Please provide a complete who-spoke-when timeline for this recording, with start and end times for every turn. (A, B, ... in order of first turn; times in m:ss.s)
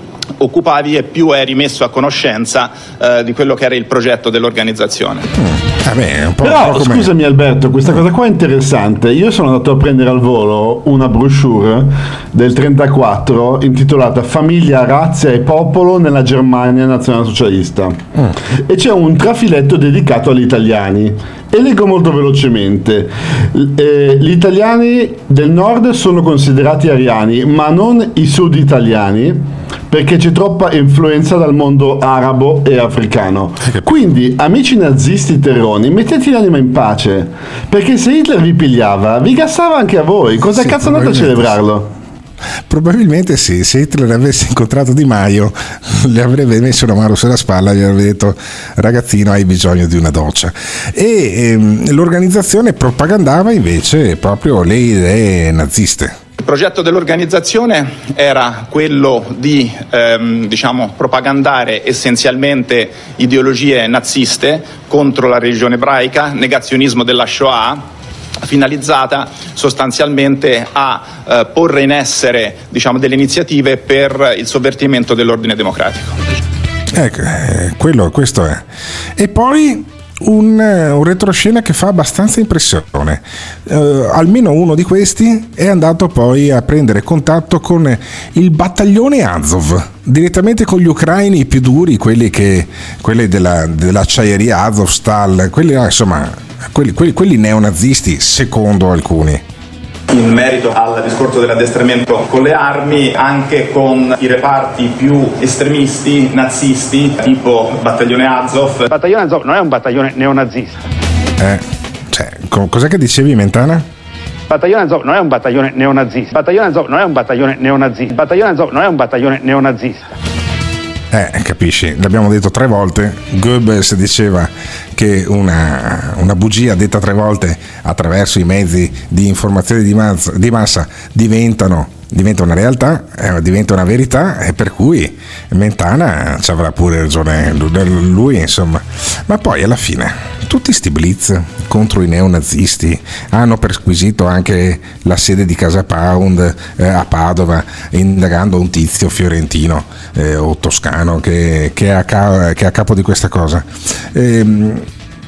0:00.4-0:05.3 A
0:05.4-0:07.1 B
0:06.4-0:18.0 C
0:18.7-0:41.9 C
0:33.6-0:34.0 B
0:40.6-0:41.6 B
0:42.7-0:56.2 B
0:56.4-1:07.9 A
1:08.4-1:16.2 A
1:16.9-1:18.6 B
1:19.2-1:39.4 B
1:40.1-1:48.9 A
1:48.9-1:50.8 D
1:51.4-1:53.9 B
1:54.5-2:00.1 D
2:01.1-2:34.9 B